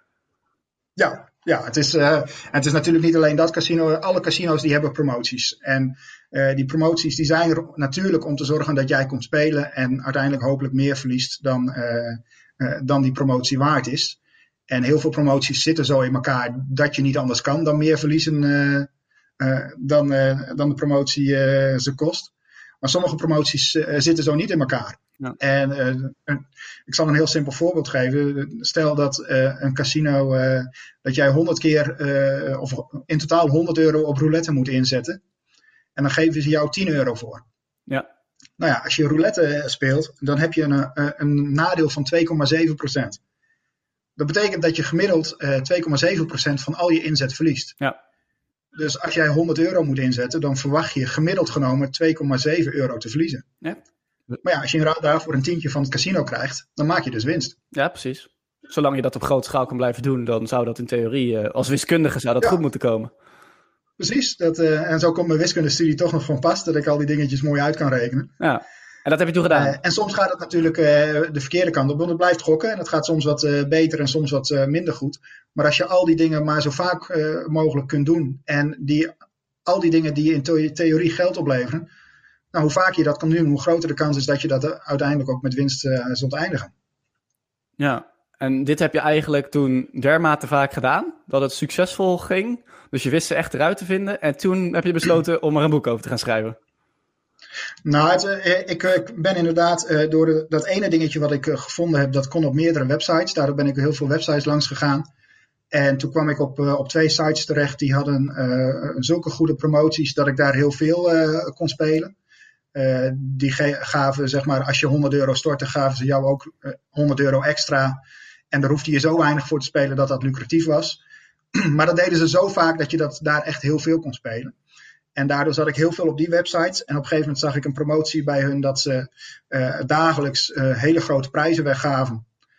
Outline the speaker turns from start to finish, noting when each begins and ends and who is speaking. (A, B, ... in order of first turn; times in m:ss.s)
0:01.0-0:14.2 A
0:14.7-0:22.3 A
0:22.8-0:35.2 A
0:36.0-0:37.4 A
0:38.6-0:43.2 A
0:44.2-0:47.8 A
0:48.7-0:53.4 A
0:54.4-0:57.5 A
0:57.7-1:03.1 B
1:04.0-1:08.3 A
1:08.4-1:09.8 B
1:09.5-1:19.1 A
1:19.6-1:21.9 A
1:22.5-1:26.7 A
1:27.8-1:36.6 B
1:37.8-1:45.0 A
1:45.7-1:52.1 A
1:52.7-1:58.0 A
1:58.5-2:01.0 A
2:01.5-2:04.5 A
2:05.2-2:12.2 A